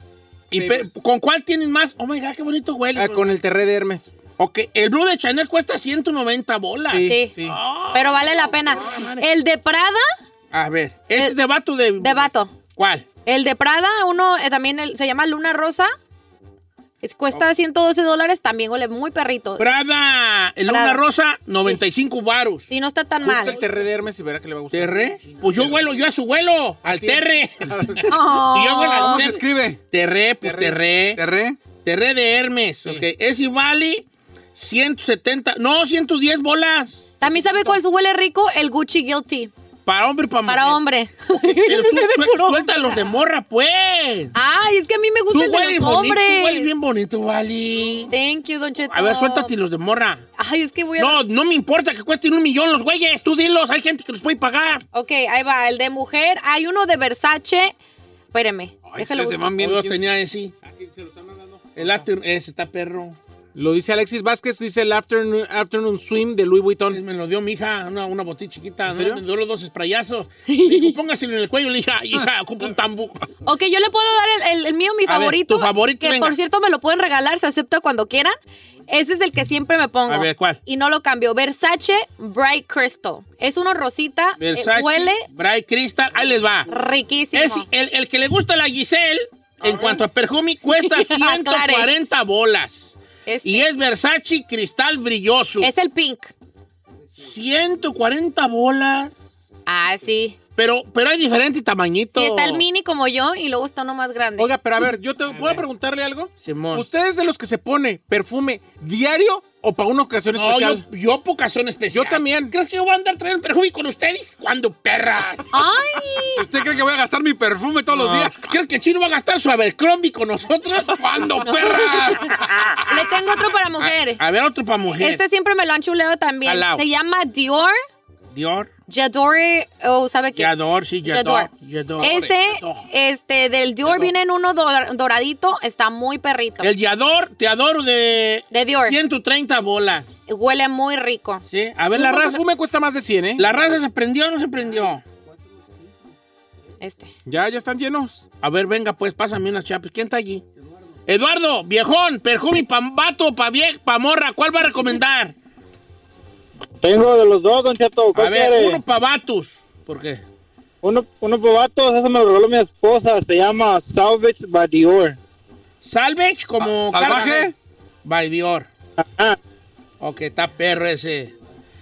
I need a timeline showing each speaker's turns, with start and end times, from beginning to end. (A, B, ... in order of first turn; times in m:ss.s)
0:00.5-0:03.3 A
0:00.5-0:00.9 B
0:02.9-0:04.1 B
0:04.4-0:09.3 A
0:06.8-0:07.6 B
0:07.1-0:07.3 C
0:07.9-0:10.0 C
0:10.5-0:13.1 A
0:12.0-0:12.5 C
0:13.2-0:15.9 C
0:17.0-0:19.6 C
0:19.6-0:22.7 A
0:20.6-0:21.0 C
0:22.7-0:23.6 C
0:23.2-0:23.8 A
0:23.2-0:25.8 B
0:24.7-0:31.2 A
0:26.8-0:28.1 B
0:28.1-0:29.2 C
0:28.9-0:29.8 D
0:30.4-0:30.8 B
0:31.2-0:31.6 D
0:31.8-0:37.1 A
0:37.2-0:39.5 C
0:37.2-0:37.8 B
0:39.8-0:40.8 A
0:40.5-0:43.0 C
0:41.6-0:44.3 A
0:44.3-0:46.7 C
0:45.3-0:48.1 A
0:48.1-0:49.5 C
0:48.9-0:50.3 A
0:50.4-0:51.2 C
0:51.0-0:54.8 A
0:54.9-0:57.8 C
0:58.3-0:59.4 C
0:58.8-1:00.0 D
0:59.6-1:00.5 A
1:00.6-1:02.1 B
1:01.8-1:03.2 A
1:03.5-1:07.0 B
1:06.9-1:13.3 A
1:08.9-1:09.2 B
1:10.5-1:10.9 C
1:13.4-1:18.3 C
1:15.1-1:16.4 A
1:18.9-1:25.3 C
1:20.1-1:20.6 A
1:24.4-1:26.7 A
1:26.7-1:27.7 C
1:27.3-1:35.7 A
1:30.8-1:31.9 C
1:33.2-1:33.7 C
1:35.6-1:36.3 C
1:37.1-1:39.1 A
1:39.6-1:40.4 C
1:40.6-1:42.6 A
1:42.2-1:44.5 C
1:44.4-1:50.8 B
1:45.3-1:45.6 A
1:46.4-1:46.8 A
1:50.3-1:55.5 A
1:51.9-1:52.5 B
1:55.5-1:56.4 C
1:56.4-1:58.6 D
1:57.9-2:03.1 A
2:00.9-2:02.9 D
2:01.4-2:02.3 C
2:02.9-2:04.2 C
2:03.8-2:05.2 A
2:04.9-2:07.8 C
2:06.4-2:06.8 A
2:08.3-2:08.7 A
2:08.9-2:11.5 C
2:10.4-2:12.8 A
2:12.0-2:16.7 C
2:12.0-2:12.3 D
2:16.6-2:20.1 A
2:18.5-2:19.0 C
2:20.3-2:21.4 C
2:21.5-2:22.4 A
2:21.9-2:23.6 B
2:23.4-2:25.0 A
2:26.8-2:27.1 C
2:27.2-2:28.2 B
2:28.4-2:30.4 A
2:31.1-2:35.3 A
2:36.8-2:38.8 E
2:38.1-2:40.2 A
2:40.8-2:45.2 E
2:45.8-2:47.5 A
2:46.6-2:47.5 D
2:48.0-2:48.7 A
2:49.0-2:49.4 E
2:50.0-2:51.3 A